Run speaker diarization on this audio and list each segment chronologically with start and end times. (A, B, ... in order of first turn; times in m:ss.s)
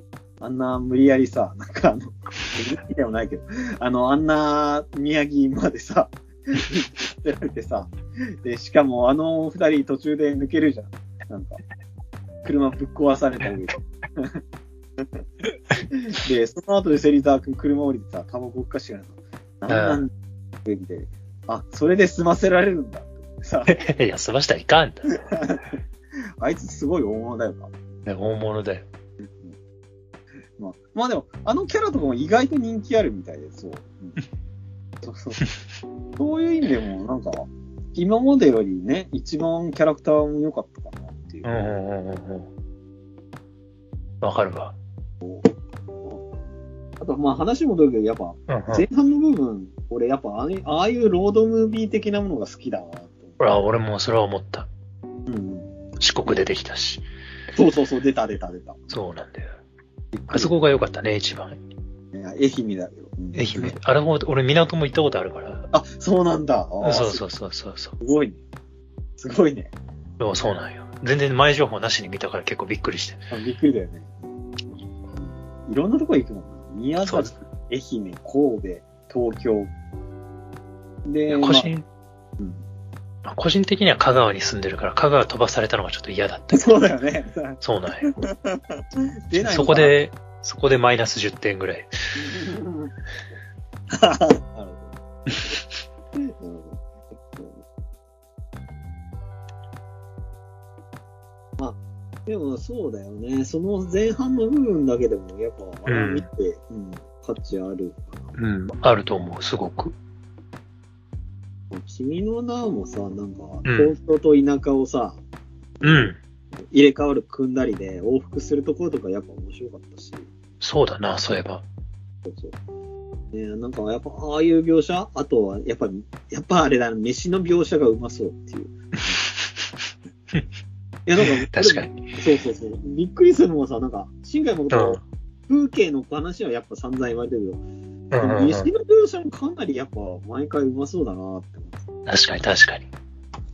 0:00.4-0:11.6 A
0:12.4-0:14.4 A
0:15.9-0:20.1 A
0:19.7-0:20.0 B
0:20.6-0:23.8 A
0:23.7-0:25.2 B
0:25.1-0:25.8 A
0:26.4-0:27.7 A
0:28.1-0:28.8 B
0:30.6-0:34.2 A
0:35.0-0:35.4 A
0:36.2-0:41.7 A
0:41.4-0:42.5 B
0:44.2-0:44.8 B
0:45.2-0:45.5 A
0:47.0-0:53.4 A
0:48.5-0:48.9 B
0:53.4-0:54.7 B
0:55.3-0:55.7 A
0:56.0-0:57.0 B
0:57.5-0:58.8 A
0:58.9-0:59.5 B
1:00.1-1:00.6 A
1:00.3-1:01.6 B
1:02.1-1:03.8 A
1:03.3-1:05.7 B
1:05.7-1:07.2 A
1:06.8-1:08.0 B
1:08.0-1:08.4 A
1:09.2-1:09.7 A
1:10.2-1:13.2 B
1:13.3-1:14.1 A
1:15.2-1:19.7 A
1:17.1-1:17.3 B
1:21.1-1:21.7 A
1:21.3-1:21.8 B
1:23.2-1:26.8 B
1:26.5-1:30.0 A
1:27.6-1:28.1 B
1:29.4-1:31.9 B
1:32.2-1:32.9 A
1:33.9-1:34.9 A
1:36.2-1:36.8 A
1:41.6-1:48.3 A
1:45.9-1:46.3 B
1:48.4-1:50.0 B
1:51.7-1:55.2 A
1:53.6-1:53.9 B
1:55.8-1:56.1 A
1:55.8-1:56.2 B
1:56.7-2:00.3 A
2:00.6-2:01.6 B
2:02.3-2:02.6 A
2:03.3-2:09.2 A
2:09.4-2:09.7 B
2:11.1-2:17.6 A
2:11.2-2:12.0 B
2:14.7-2:15.0 B
2:18.1-2:18.7 B
2:18.2-2:21.8 A
2:22.1-2:22.9 B